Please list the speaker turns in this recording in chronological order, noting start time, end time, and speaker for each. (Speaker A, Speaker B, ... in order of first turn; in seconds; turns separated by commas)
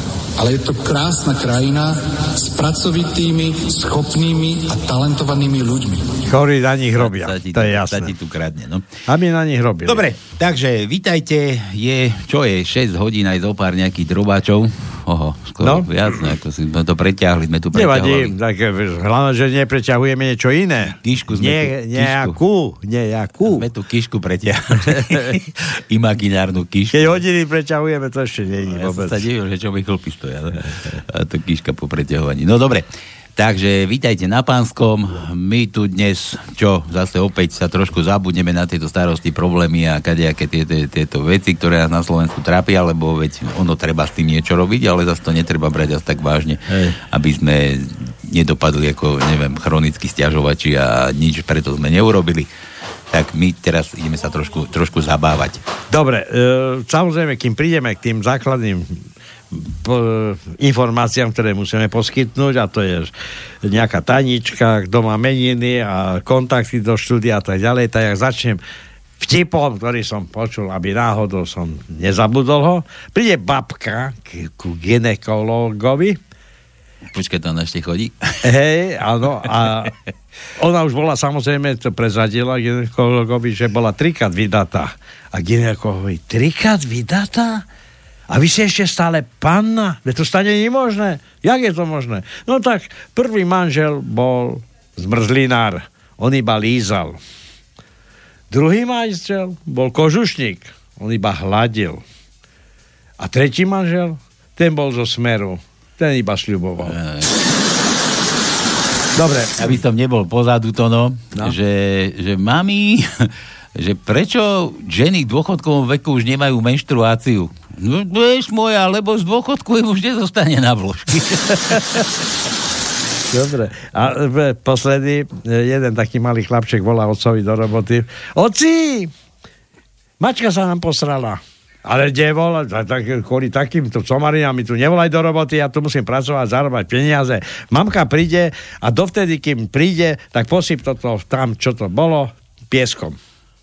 Speaker A: 0.4-6.2, Speaker B: 6.3-8.1, Speaker C: 7.0-8.9, Speaker B: 9.1-10.0, Speaker C: 9.8-18.3, Speaker B: 15.6-15.9, Speaker B: 17.7-23.6, Speaker C: 20.9-22.4, Speaker C: 23.5-27.2, Speaker B: 24.9-25.3, Speaker B: 26.9-29.2, Speaker C: 28.7-52.5, Speaker B: 46.7-47.0, Speaker C: 53.1-55.6, Speaker B: 55.9-59.0, Speaker B: 59.5-63.1, Speaker B: 63.6-68.6, Speaker B: 69.2-76.2, Speaker C: 77.1-78.4, Speaker B: 78.4-79.9, Speaker B: 80.6-87.6, Speaker B: 88.3-97.2, Speaker B: 98.5-102.0, Speaker B: 103.2-106.9, Speaker C: 106.8-107.3, Speaker B: 109.2-109.7, Speaker C: 109.6-121.8, Speaker B: 123.3-129.1, Speaker B: 130.2-143.2